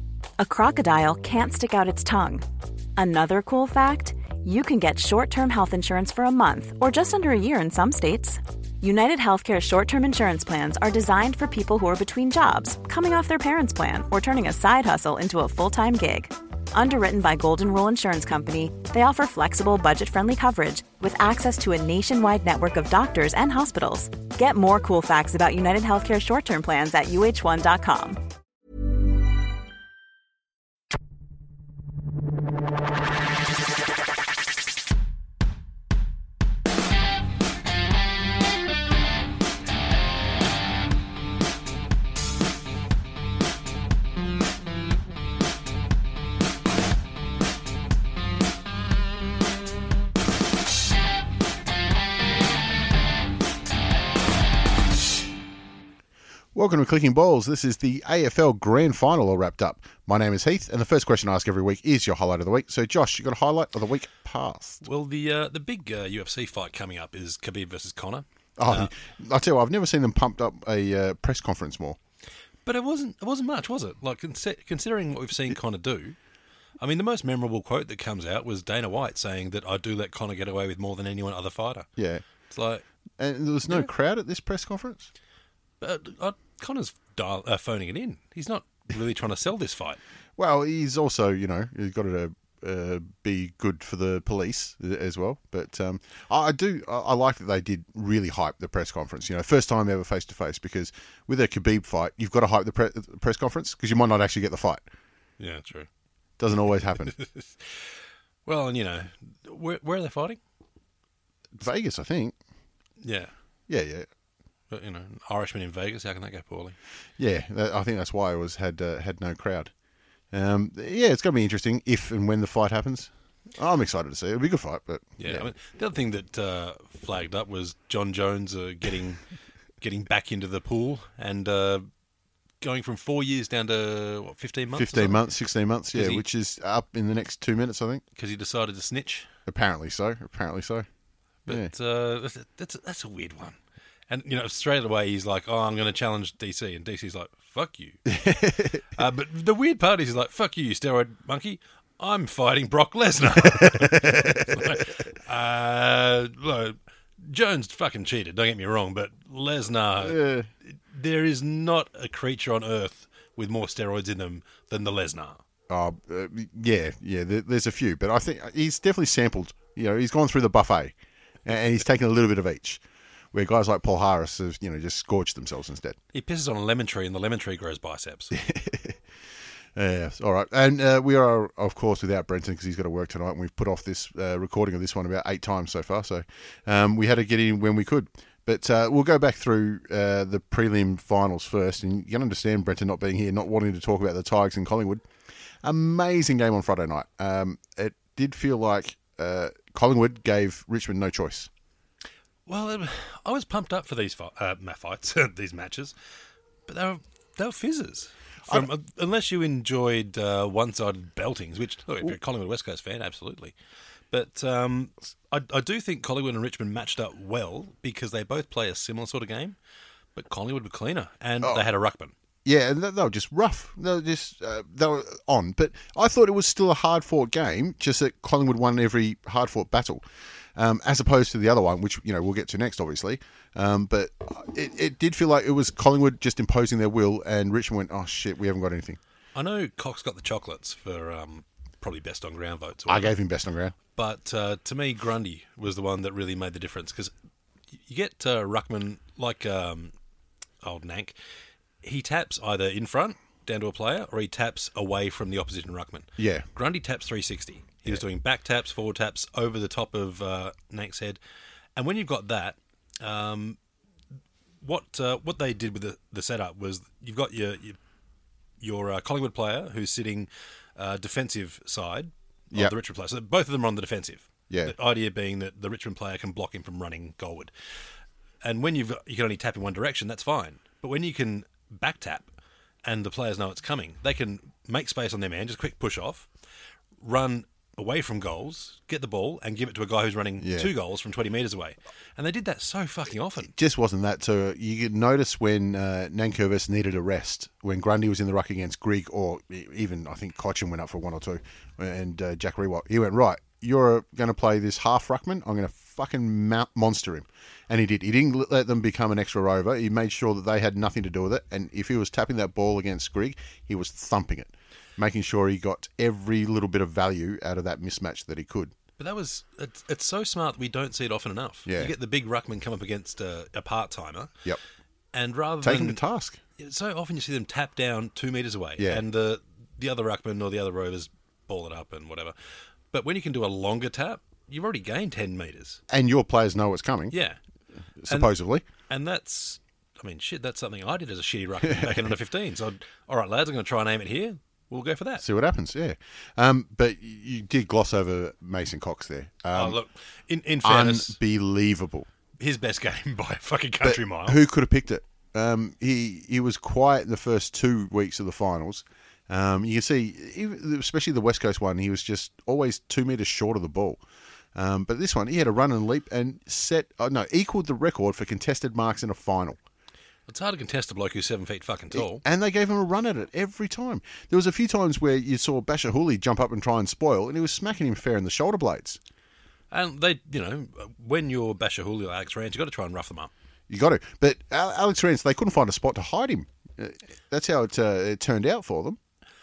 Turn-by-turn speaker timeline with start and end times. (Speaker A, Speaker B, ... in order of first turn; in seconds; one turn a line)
Speaker A: 0.4-2.5
Speaker A: 3.0-28.2
Speaker B: 56.5-64.8
Speaker C: 64.8-68.9
Speaker B: 68.6-72.0
Speaker C: 72.7-76.2
Speaker C: 76.8-81.9
Speaker B: 82.0-82.2
Speaker C: 82.5-82.8
Speaker B: 83.2-85.1
Speaker C: 85.8-90.0
Speaker B: 90.4-104.8
Speaker C: 105.4-105.9
Speaker B: 106.4-107.2
Speaker C: 107.2-107.9
Speaker C: 108.5-110.4
Speaker B: 111.6-112.4
Speaker C: 113.0-113.3
Speaker B: 113.7-114.1
Speaker C: 114.7-116.8
Speaker B: 117.2-119.7
Speaker B: 120.3-125.5
Speaker C: 125.2-129.2
Speaker C: 129.8-131.9
Speaker C: 132.6-135.2
Speaker B: 134.7-138.0
Speaker C: 135.9-136.2
Speaker C: 138.2-139.3
Speaker B: 139.5-140.9
Speaker C: 141.5-143.6
Speaker C: 144.1-165.4
Speaker B: 148.1-148.8
Speaker B: 153.4-154.9
Speaker B: 160.0-160.5
Speaker B: 165.7-172.8
Speaker B: 173.3-176.0
Speaker C: 176.1-178.4
Speaker B: 178.3-179.0
Speaker B: 179.8-195.0
Speaker B: 195.6-201.5
Speaker C: 202.5-205.9
Speaker C: 206.7-213.5
Speaker C: 214.1-219.6
Speaker C: 220.2-222.1
Speaker B: 222.4-230.0
Speaker B: 230.6-239.0
Speaker C: 239.3-243.1
Speaker B: 242.9-243.8
Speaker C: 243.9-247.1
Speaker C: 247.9-249.9
Speaker C: 250.6-251.2
Speaker C: 251.8-261.2
Speaker B: 256.2-256.5
Speaker C: 261.8-263.6
Speaker C: 264.6-267.8
Speaker C: 268.6-277.5
Speaker B: 274.5-274.8
Speaker C: 278.4-282.3
Speaker C: 282.8-286.3
Speaker C: 287.0-293.5
Speaker B: 290.4-290.7
Speaker B: 293.4-318.8
Speaker C: 319.0-324.3
Speaker B: 321.7-321.9
Speaker C: 325.1-326.0
Speaker B: 325.6-326.4
Speaker C: 326.6-332.4
Speaker B: 328.8-329.1
Speaker C: 332.9-335.8
Speaker B: 335.9-337.2
Speaker C: 337.1-337.4
Speaker B: 338.0-338.6
Speaker C: 338.1-338.3
Speaker C: 338.9-345.2
Speaker B: 341.6-342.1
Speaker B: 345.2-349.8
Speaker C: 349.5-351.2
Speaker B: 350.6-352.1
Speaker C: 352.4-354.4
Speaker B: 353.8-364.0
Speaker B: 364.6-369.6
Speaker C: 370.3-372.2
Speaker B: 371.9-379.0
Speaker C: 379.7-383.3
Speaker B: 383.7-389.0